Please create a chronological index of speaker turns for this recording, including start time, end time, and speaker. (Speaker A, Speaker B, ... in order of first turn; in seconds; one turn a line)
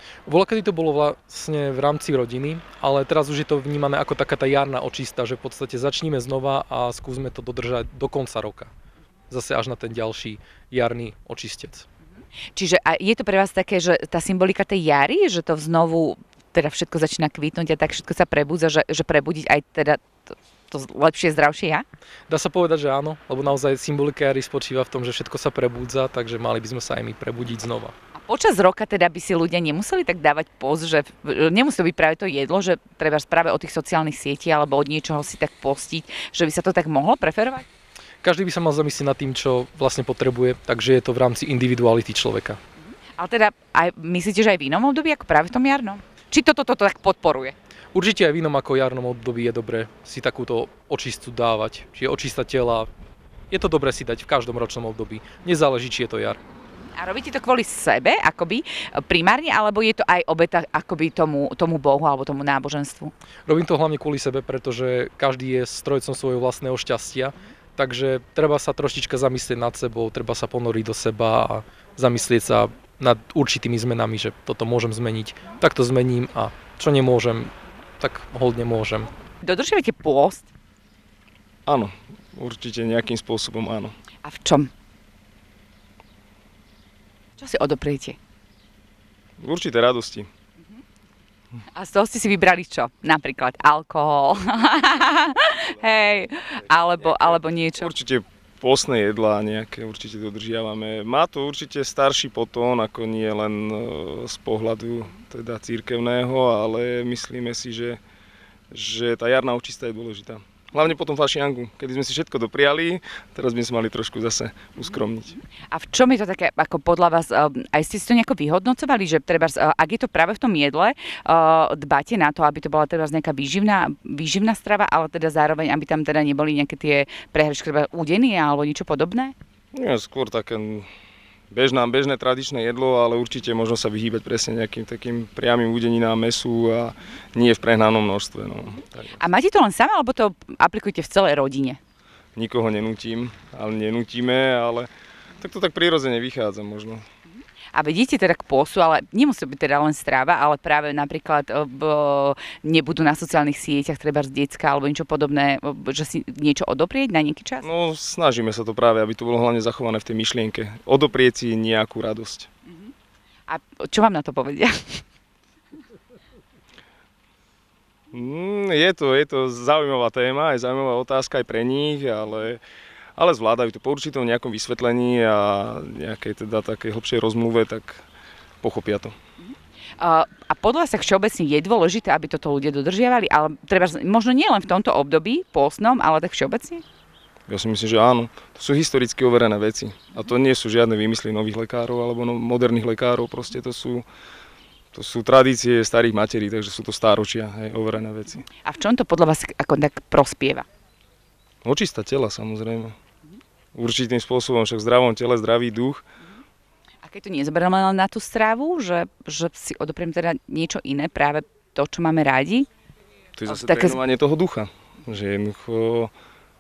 Speaker A: 0.3-8.7
Speaker A: 9.3-11.9
Speaker B: 12.6-20.1
Speaker B: 20.7-21.9
Speaker A: 22.3-27.9
Speaker B: 28.1-37.7
Speaker A: 38.2-42.6
Speaker B: 42.9-47.5
Speaker A: 47.9-52.9
Speaker A: 53.5-56.4
Speaker B: 56.8-63.1
Speaker A: 63.5-79.1
Speaker B: 79.4-80.5
Speaker C: 81.7-83.9
Speaker B: 84.2-84.7
Speaker B: 87.4-88.2
Speaker C: 89.4-90.3
Speaker B: 91.7-97.9
Speaker C: 97.8-108.0
Speaker C: 108.7-115.3
Speaker B: 115.3-129.3
Speaker C: 129.7-130.9
Speaker C: 131.5-138.8
Speaker B: 139.2-141.8
Speaker C: 142.4-144.9
Speaker C: 145.4-147.1
Speaker B: 147.7-157.7
Speaker C: 157.6-162.5
Speaker B: 162.7-162.9
Speaker B: 163.5-165.0
Speaker C: 168.1-172.6
Speaker C: 173.2-178.0
Speaker C: 178.6-179.1
Speaker B: 179.4-186.8
Speaker C: 187.5-194.1
Speaker C: 194.9-198.4
Speaker B: 198.6-200.7
Speaker C: 201.6-202.9
Speaker C: 203.8-206.0
Speaker B: 207.0-212.7
Speaker C: 213.4-216.1
Speaker B: 213.5-214.0